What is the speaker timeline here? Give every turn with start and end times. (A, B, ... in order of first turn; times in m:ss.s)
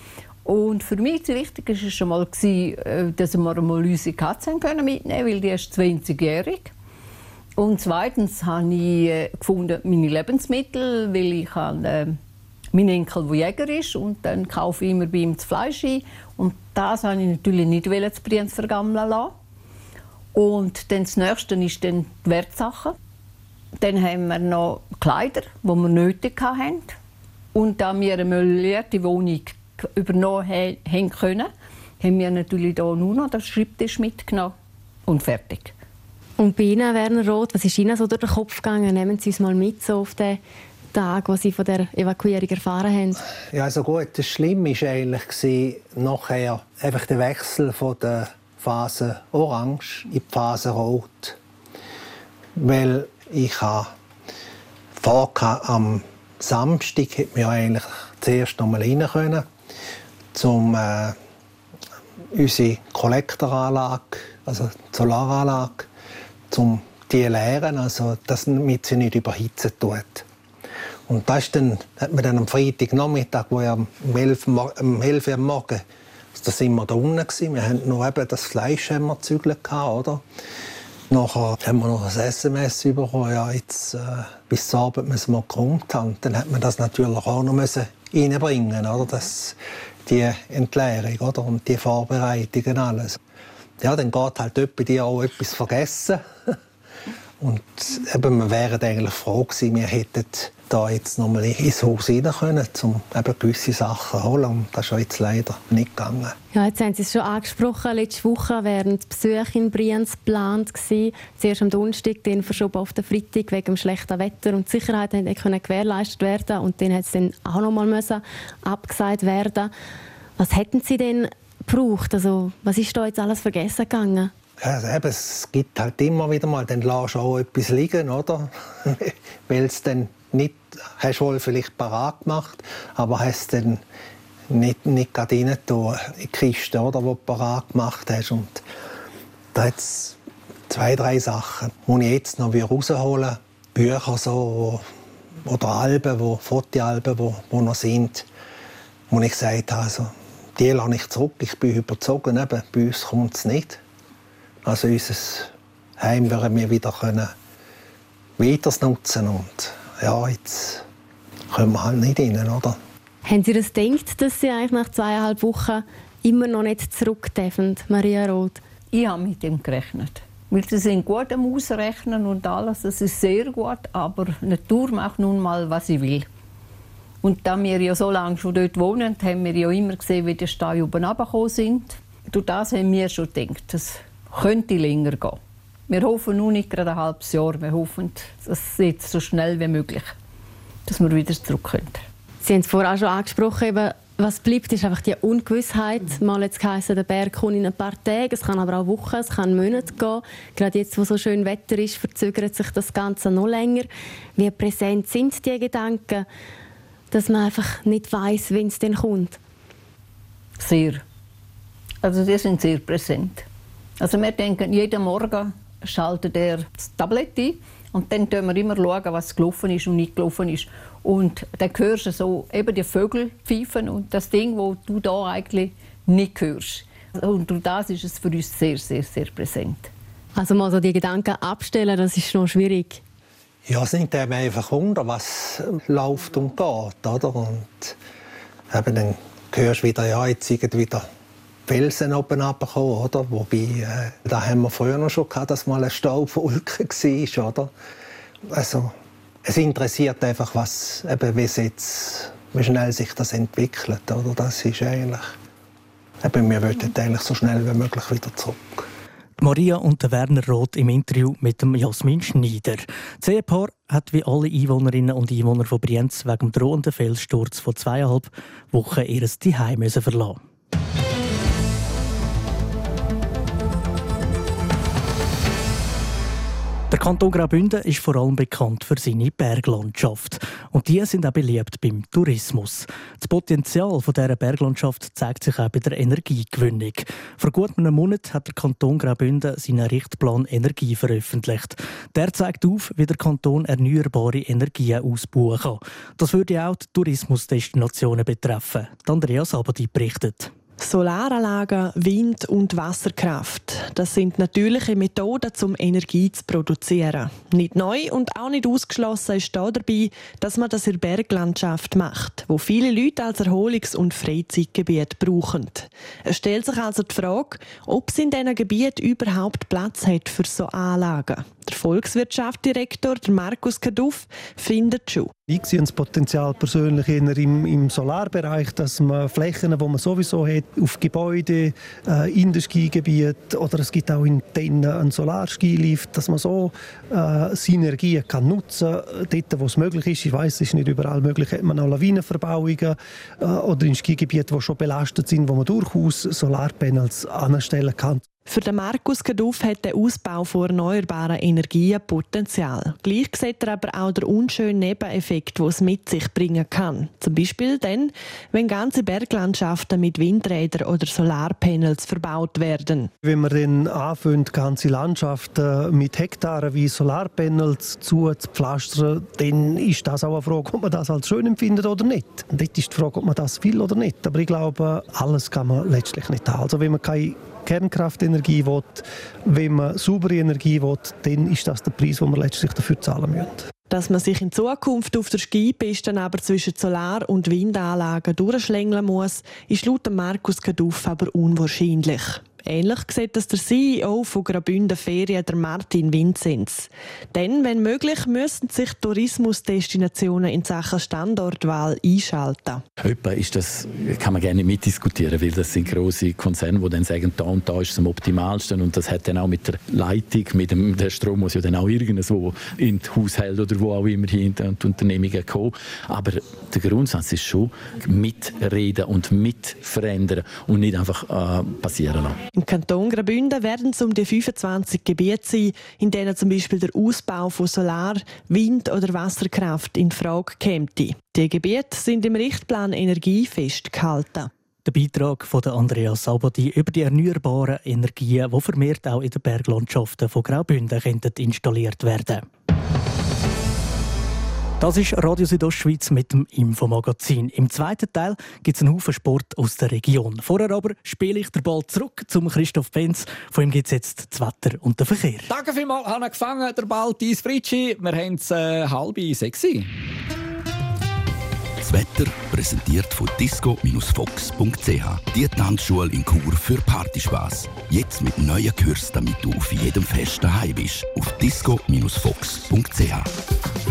0:00.4-0:06.7 A
0:07.6-0:12.2 A
0:12.7-0:19.3 A
0:20.3-0:23.0 A
0:23.8-0:27.0 A
0:27.5-0:34.6 A
0:35.1-0:35.7 A
0:36.4-0:40.4 B
0:40.9-0:43.2 B
0:43.5-0:51.4 C
0:52.6-0:53.9 C
0:55.0-0:59.5 C
1:00.3-1:01.2 C
1:02.3-1:05.9 C
1:06.5-1:10.2 C
1:11.1-1:15.8 C
1:16.4-1:20.2 C
1:21.1-1:33.2 C
1:33.8-1:36.6 C
1:37.4-1:46.4 C
1:46.5-1:59.7 B
2:00.4-2:04.3 B
2:04.6-2:13.8 C
2:14.5-2:18.6 C
2:19.5-2:20.2 C
2:20.7-2:24.8 C
2:25.4-2:28.3 C
2:29.1-2:33.8 C
2:34.6-2:37.3 C
2:38.4-2:40.8 C
2:41.5-2:42.8 C
2:43.2-2:48.6 B
2:48.9-2:56.3 A
2:57.2-3:10.2 A
3:10.9-3:12.0 A
3:12.4-3:26.3 B
3:27.1-3:29.4 B
3:30.6-3:31.0 A
3:32.0-3:33.5 A
3:34.0-3:49.9 A
3:50.4-3:53.0 B
3:53.7-3:58.0 C
3:58.7-4:01.1 C
4:01.7-4:07.7 C
4:08.5-4:08.9 C
4:09.4-4:15.3 C
4:16.2-4:18.9 C
4:19.4-4:30.4 D
4:36.9-5:00.5 D
5:00.8-5:25.3 E
5:25.5-5:48.3 F
5:48.5-6:03.1 E
6:03.2-6:23.7 F
6:23.9-6:42.8 E
6:43.0-7:02.5 G
7:02.5-7:14.5 E
7:14.8-7:22.5 D
7:24.8-7:35.5 D
7:35.5-7:39.9 H
7:41.8-7:53.3 I